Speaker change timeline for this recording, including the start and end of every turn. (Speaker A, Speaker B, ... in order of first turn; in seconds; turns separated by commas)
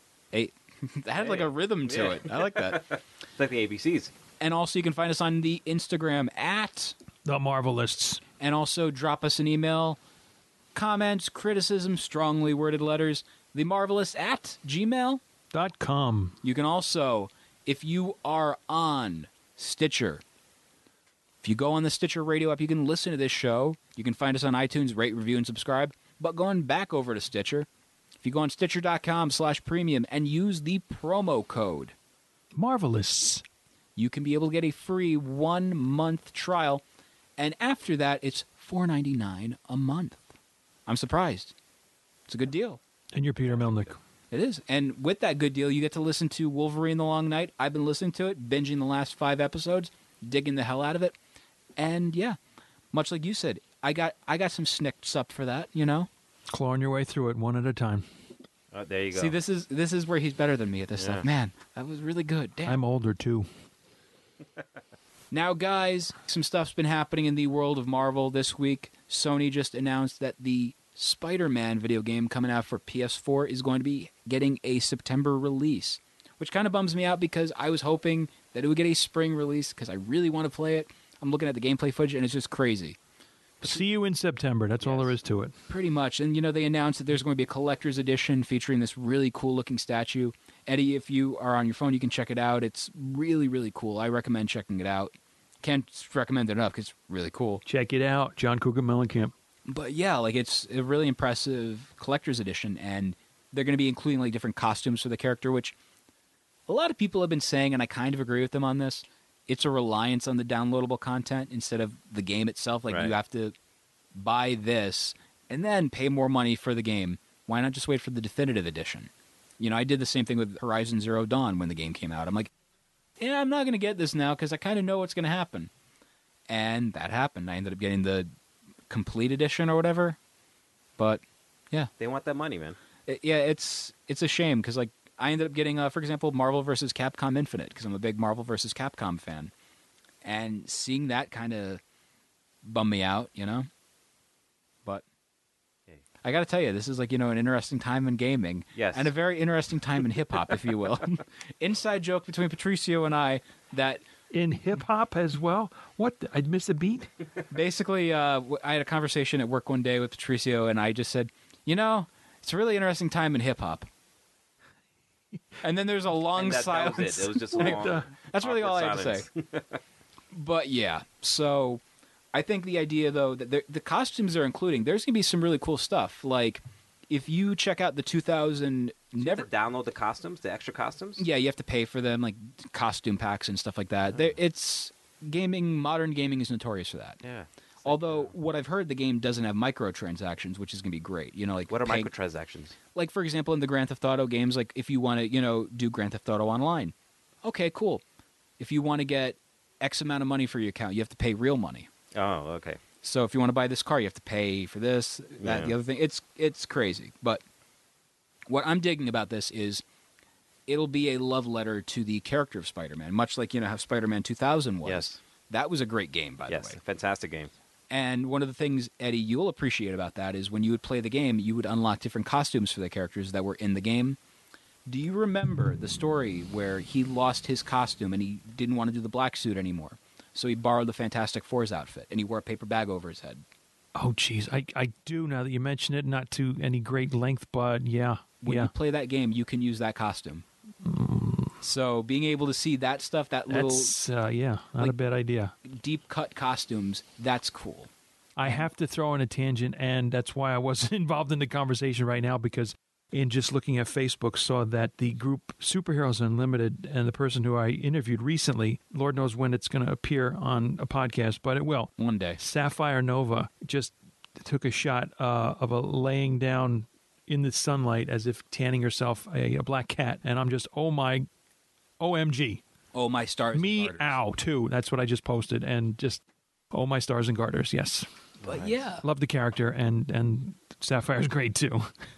Speaker A: 0.3-2.9, Speaker B: 1.2-4.1, Speaker A: 4.4-7.0, Speaker C: 7.2-8.2, Speaker A: 8.4-10.0, Speaker A: 10.7-15.2, Speaker C: 15.5-16.4, Speaker A: 16.4-20.2, Speaker A: 21.4-27.7, Speaker A: 28.2-31.9, Speaker C: 32.5-33.4, Speaker A: 34.0-36.8, Speaker A: 37.4-40.2, Speaker A: 40.9-41.5, Speaker A: 42.3-42.8, Speaker C: 43.1-44.0, Speaker A: 44.3-51.1, Speaker A: 51.8-52.4, Speaker A: 52.9-56.1, Speaker C: 56.5-58.0, Speaker B: 58.7-59.4, Speaker A: 59.1-62.8, Speaker B: 61.0-61.3, Speaker C: 62.6-63.5, Speaker A: 65.3-83.0, Speaker C: 83.6-85.5, Speaker A: 85.7-97.6, Speaker C: 97.7-99.3, Speaker A: 99.7-105.8, Speaker A: 106.7-113.5, Speaker B: 112.9-113.2, Speaker A: 114.2-122.5, Speaker A: 123.2-125.7, Speaker A: 126.5-128.3, Speaker A: 128.9-130.2, Speaker A: 131.0-131.9, Speaker B: 132.0-132.8, Speaker A: 133.1-139.5, Speaker A: 140.2-141.8, Speaker A: 142.6-143.7, Speaker A: 146.2-154.0, Speaker B: 148.8-149.1, Speaker C: 154.3-157.1, Speaker A: 157.5-163.9, Speaker A: 165.6-169.3, Speaker B: 166.3-169.8, Speaker C: 167.6-168.1, Speaker A: 170.3-171.8, Speaker A: 172.3-179.5, Speaker B: 179.2-181.3, Speaker A: 181.2-187.2, Speaker B: 187.2-188.3, Speaker A: 187.8-192.1, Speaker B: 191.7-192.8, Speaker A: 192.9-198.0, Speaker A: 198.6-201.9, Speaker B: 202.2-202.8, Speaker A: 203.0-207.4, Speaker B: 205.4-205.8, Speaker A: 208.5-209.8, Speaker A: 210.7-216.8, Speaker B: 214.8-215.2, Speaker B: 216.5-217.5, Speaker A: 217.9-224.2, Speaker A: 224.9-233.4, Speaker C: 234.0-238.7, Speaker A: 238.4-240.4, Speaker C: 240.8-241.6, Speaker A: 241.6-243.9, Speaker C: 243.5-245.5, Speaker A: 245.7-247.9, Speaker C: 248.4-271.3, Speaker A: 262.0-262.4, Speaker C: 272.0-272.6, Speaker A: 272.9-274.2, Speaker C: 273.5-278.1, Speaker B: 278.4-278.8, Speaker A: 278.5-279.1, Speaker C: 279.0-281.9